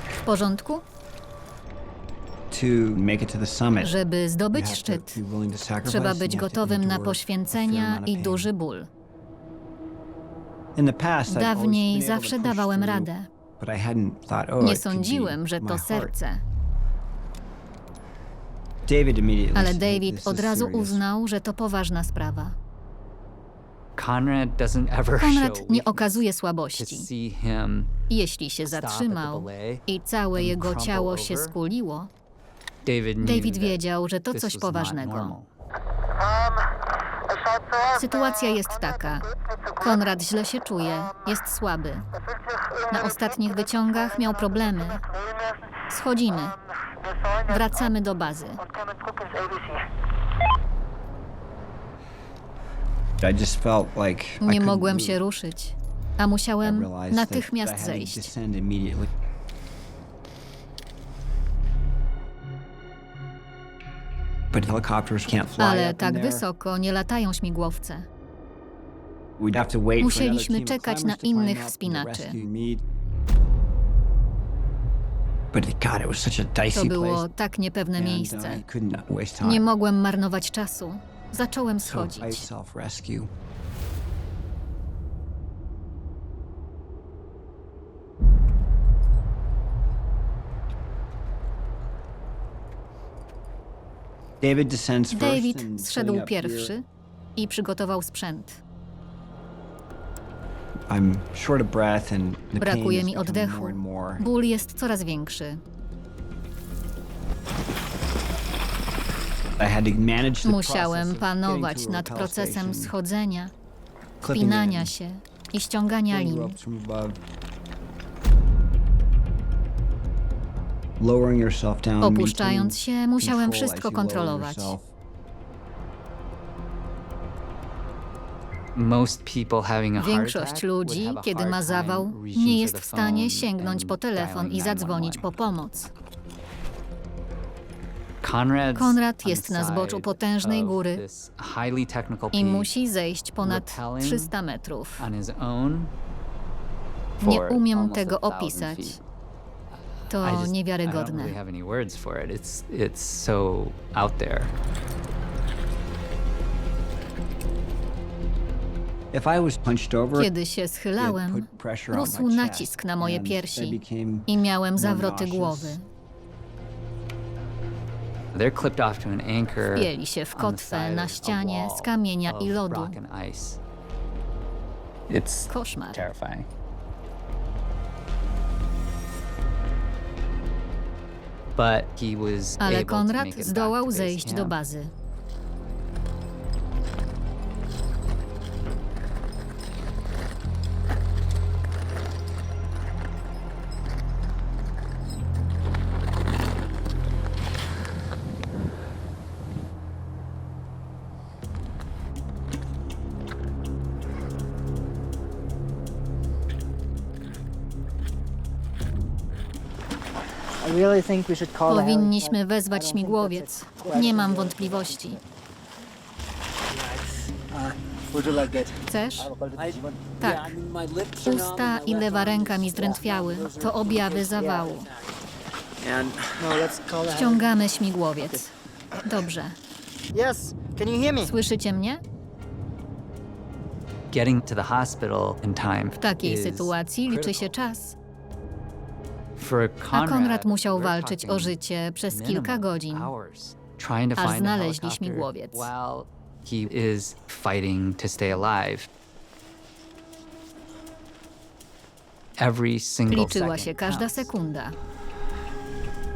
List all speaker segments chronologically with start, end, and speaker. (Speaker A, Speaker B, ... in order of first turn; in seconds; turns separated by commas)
Speaker A: 0.2-0.8, Speaker B: 2.5-4.0, Speaker A: 3.8-5.2, Speaker B: 4.5-8.5, Speaker A: 5.8-8.9, Speaker B: 10.8-16.1, Speaker A: 11.3-13.3, Speaker A: 14.6-16.4, Speaker B: 18.9-21.0, Speaker A: 19.6-22.5, Speaker C: 24.0-26.2, Speaker A: 25.2-27.1, Speaker C: 26.7-27.9, Speaker A: 28.1-32.1, Speaker C: 28.6-29.9, Speaker C: 30.4-31.6, Speaker C: 32.9-33.8, Speaker A: 33.2-35.4, Speaker C: 34.3-35.5, Speaker A: 37.9-42.0, Speaker A: 42.9-45.0, Speaker A: 45.9-46.6, Speaker A: 47.3-48.7, Speaker D: 48.9-49.9, Speaker B: 53.2-55.2, Speaker A: 54.4-58.3, Speaker B: 56.6-59.1, Speaker B: 64.5-66.4, Speaker A: 65.6-68.1, Speaker B: 69.4-72.8, Speaker A: 70.0-72.4, Speaker B: 75.5-77.3, Speaker A: 76.7-78.6, Speaker B: 78.0-79.7, Speaker A: 79.4-82.5, Speaker B: 81.8-83.3, Speaker B: 94.4-96.7, Speaker A: 95.1-96.8, Speaker A: 97.4-98.6, Speaker B: 100.9-104.3, Speaker A: 102.6-105.6, Speaker B: 109.6-112.9, Speaker A: 110.4-113.5, Speaker B: 114.2-114.9, Speaker A: 114.2-116.6, Speaker B: 116.1-117.2, Speaker B: 121.0-124.9, Speaker A: 122.0-124.8, Speaker C: 128.8-135.2, Speaker A: 130.0-135.9, Speaker C: 138.2-142.7, Speaker A: 138.8-141.0, Speaker A: 142.3-145.1, Speaker C: 143.4-144.3, Speaker C: 145.0-145.9, Speaker A: 147.2-149.0, Speaker C: 147.2-149.0, Speaker C: 150.1-154.5, Speaker A: 150.1-151.4, Speaker B: 159.1-160.3, Speaker A: 160.2-165.9, Speaker B: 161.0-165.8, Speaker C: 168.3-173.6, Speaker A: 169.6-173.0, Speaker C: 175.1-176.5, Speaker A: 175.5-176.1, Speaker C: 181.6-184.6, Speaker A: 182.6-184.9, Speaker D: 210.6-215.1, Speaker A: 211.7-215.2, Speaker D: 216.7-218.7, Speaker A: 218.8-219.3, Speaker B: 219.4-224.8, Speaker A: 220.2-220.6, Speaker A: 221.2-224.9, Speaker B: 225.8-226.4, Speaker D: 226.4-228.4, Speaker A: 227.1-228.5, Speaker A: 229.0-229.6, Speaker D: 230.1-231.3, Speaker A: 231.2-232.0, Speaker C: 234.1-237.6, Speaker A: 236.0-237.9, Speaker C: 239.4-241.6, Speaker A: 239.9-243.1, Speaker C: 242.1-248.9, Speaker A: 244.2-245.7, Speaker C: 252.4-254.3, Speaker A: 253.1-254.8